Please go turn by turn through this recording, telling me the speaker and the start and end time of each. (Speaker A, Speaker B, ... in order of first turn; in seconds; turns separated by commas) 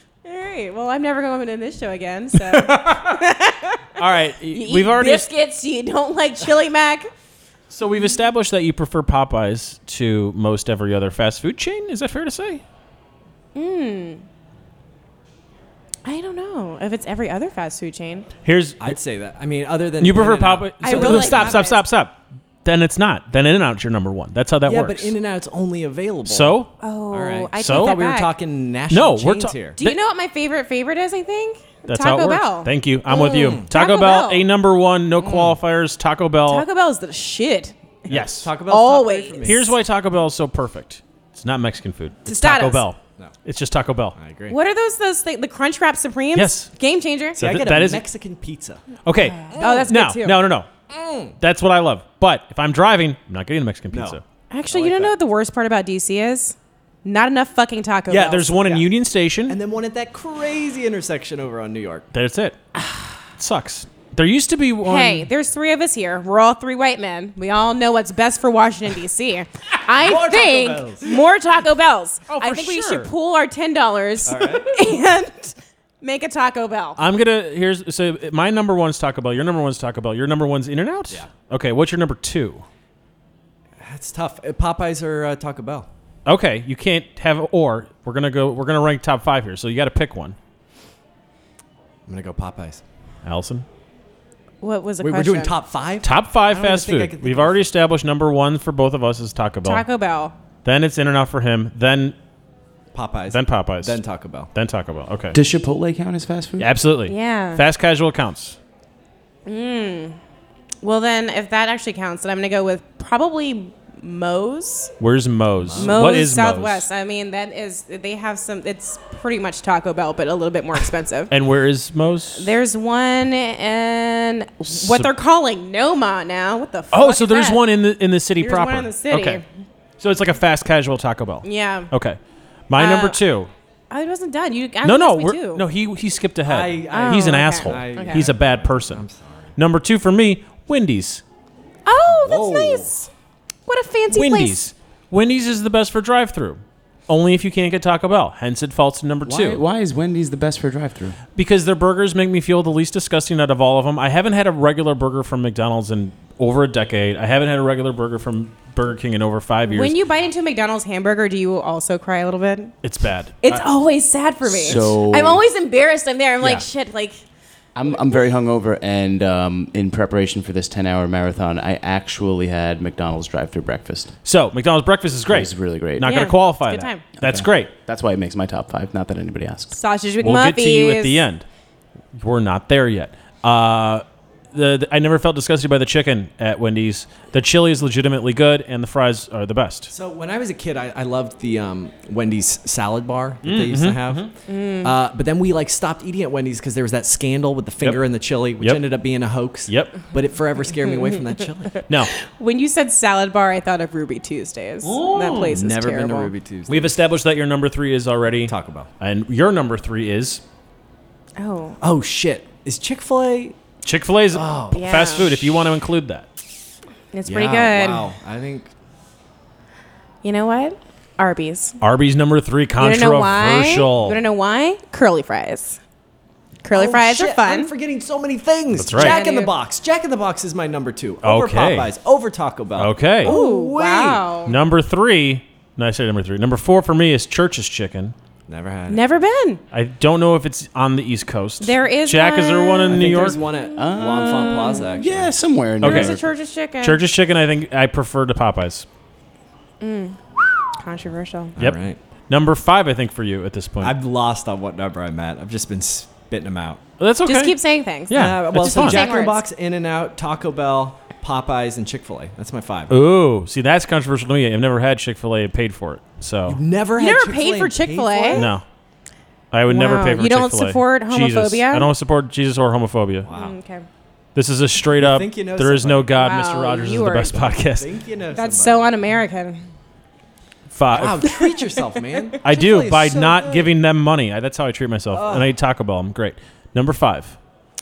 Speaker A: 0.2-3.9, Speaker B: 2.4-3.2, Speaker B: 4.0-5.3, Speaker A: 4.5-7.1, Speaker B: 7.7-12.6, Speaker A: 13.6-14.2, Speaker A: 16.1-18.3, Speaker B: 18.4-18.9, Speaker C: 18.8-21.7, Speaker B: 20.0-25.1, Speaker A: 20.8-21.8, Speaker C: 24.6-26.6, Speaker B: 26.3-26.7, Speaker A: 26.8-28.3, Speaker C: 27.1-29.8, Speaker B: 27.6-28.0, Speaker B: 28.9-30.0, Speaker A: 29.8-34.5, Speaker B: 31.9-36.7, Speaker C: 33.3-33.7, Speaker C: 35.2-35.6, Speaker A: 36.5-37.8, Speaker B: 38.1-38.5, Speaker C: 38.1-39.7, Speaker A: 38.6-39.7, Speaker B: 39.4-44.2, Speaker A: 42.3-42.9, Speaker C: 44.2-44.6, Speaker A: 44.5-47.4, Speaker B: 46.3-46.7, Speaker B: 47.4-48.0, Speaker C: 47.4-48.9, Speaker B: 49.0-50.7, Speaker A: 49.2-50.4, Speaker C: 49.5-49.9, Speaker C: 50.9-51.4, Speaker B: 51.4-54.2, Speaker C: 53.9-54.2, Speaker A: 54.5-58.5, Speaker C: 54.7-55.1, Speaker B: 58.1-59.6, Speaker C: 58.5-58.9, Speaker C: 59.5-62.1, Speaker B: 62.1-62.6, Speaker B: 63.4-65.3, Speaker A: 64.8-77.0, Speaker C: 69.9-71.2, Speaker B: 72.3-73.1, Speaker C: 74.2-74.8, Speaker B: 77.0-82.7, Speaker C: 83.8-85.9, Speaker B: 86.3-90.4, Speaker C: 92.1-92.8, Speaker B: 93.2-93.7, Speaker A: 94.6-95.6, Speaker C: 95.0-97.7, Speaker B: 96.0-99.8, Speaker A: 99.6-100.3, Speaker B: 100.7-102.2, Speaker C: 102.9-104.5, Speaker B: 103.3-104.0, Speaker B: 104.5-105.4, Speaker D: 105.3-106.7, Speaker B: 106.6-108.6, Speaker A: 107.1-107.6, Speaker A: 109.5-110.2, Speaker A: 110.8-114.9, Speaker B: 115.0-116.9, Speaker C: 115.6-116.2, Speaker A: 115.8-121.3, Speaker B: 121.3-122.5, Speaker A: 122.3-127.6, Speaker B: 124.7-125.1, Speaker B: 126.9-129.4, Speaker A: 128.4-129.4, Speaker B: 130.0-133.5, Speaker A: 131.4-131.9, Speaker A: 132.8-133.2, Speaker A: 133.9-135.6, Speaker B: 134.8-139.1, Speaker C: 136.5-139.6, Speaker A: 136.9-138.3, Speaker B: 139.6-141.2, Speaker A: 141.9-143.1, Speaker C: 142.1-142.9, Speaker A: 143.7-144.6, Speaker B: 144.1-149.6, Speaker D: 149.2-151.2, Speaker B: 151.4-160.0, Speaker A: 159.7-162.8, Speaker B: 162.8-163.7, Speaker A: 163.4-167.2, Speaker D: 164.4-165.4, Speaker D: 167.8-174.2, Speaker B: 174.2-177.7, Speaker D: 175.3-176.2, Speaker A: 176.0-177.1, Speaker D: 177.2-179.8, Speaker A: 179.7-181.2, Speaker B: 180.2-181.5, Speaker B: 182.2-189.9, Speaker C: 189.9-201.8, Speaker B: 193.4-194.3, Speaker A: 194.5-194.9, Speaker B: 199.7-200.0, Speaker A: 200.9-206.3, Speaker B: 204.8-205.6, Speaker C: 205.5-206.9, Speaker B: 206.7-210.4, Speaker C: 208.4-208.9, Speaker A: 211.4-211.8, Speaker C: 211.8-213.6, Speaker B: 213.8-216.3, Speaker C: 214.3-215.2, Speaker A: 214.7-215.3, Speaker A: 217.1-218.1, Speaker C: 217.3-218.7, Speaker A: 220.2-221.8, Speaker B: 221.8-224.2, Speaker A: 222.8-225.8, Speaker A: 226.6-227.7, Speaker C: 226.7-234.5, Speaker B: 228.7-229.2, Speaker A: 229.0-229.5, Speaker B: 231.2-231.9, Speaker B: 232.8-233.4, Speaker A: 233.2-234.5, Speaker B: 234.5-238.1, Speaker C: 238.5-239.0, Speaker A: 238.9-239.6, Speaker B: 239.7-243.4, Speaker A: 241.6-243.0, Speaker C: 242.9-245.4, Speaker D: 243.1-246.2, Speaker B: 245.8-246.2, Speaker A: 245.8-247.0, Speaker B: 246.8-248.9, Speaker A: 249.8-251.6, Speaker C: 251.6-252.0, Speaker B: 251.6-254.0, Speaker C: 253.8-256.8, Speaker B: 257.0-259.1, Speaker A: 257.2-259.4, Speaker C: 258.1-263.0, Speaker B: 262.9-266.6, Speaker C: 266.5-268.5, Speaker A: 267.0-268.5, Speaker B: 268.3-268.6, Speaker B: 269.5-273.3, Speaker A: 269.7-271.9, Speaker C: 273.2-273.6, Speaker A: 273.3-273.9, Speaker B: 274.4-277.9, Speaker C: 274.9-276.2, Speaker A: 276.1-277.6, Speaker C: 277.6-278.9, Speaker A: 278.3-279.6, Speaker B: 280.7-281.3, Speaker C: 280.9-283.7, Speaker A: 281.2-281.8, Speaker B: 282.4-287.4, Speaker C: 285.1-285.5